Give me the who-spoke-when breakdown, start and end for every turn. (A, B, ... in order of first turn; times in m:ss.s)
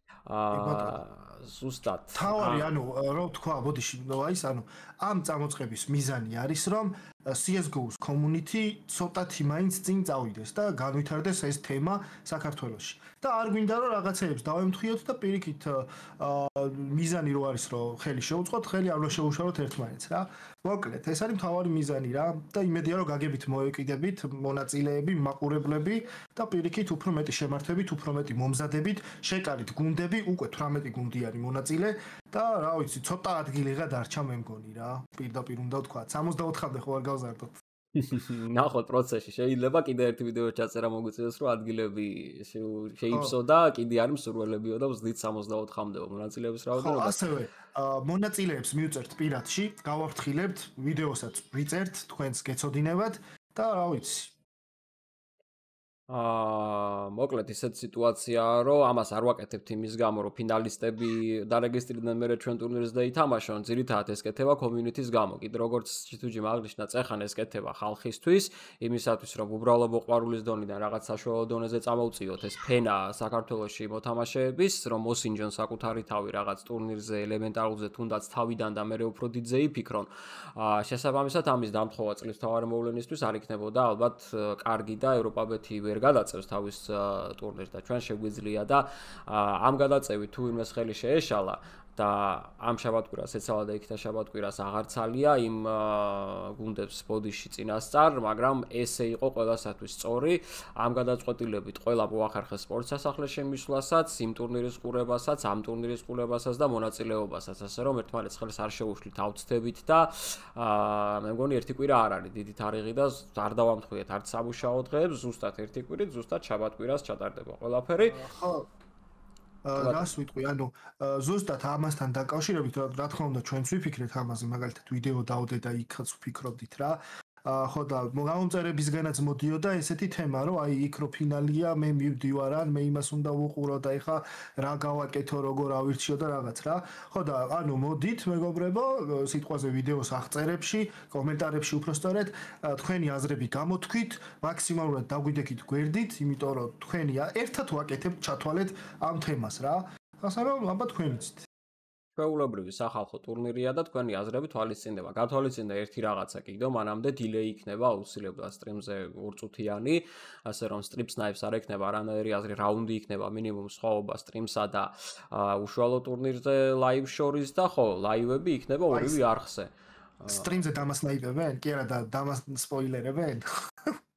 0:00.2-0:02.7 A
0:00.5-0:01.0 B
0:02.1-0:37.5 B
0:37.9-0:47.3 A
0:43.1-0:43.4 B
0:46.8-0:54.4 B
0:56.1-1:58.2 A
1:58.0-1:58.6 B
1:59.6-2:31.4 B
1:59.7-2:00.1 A
2:32.2-2:50.7 A
2:48.9-2:49.2 B
2:50.3-2:53.4 B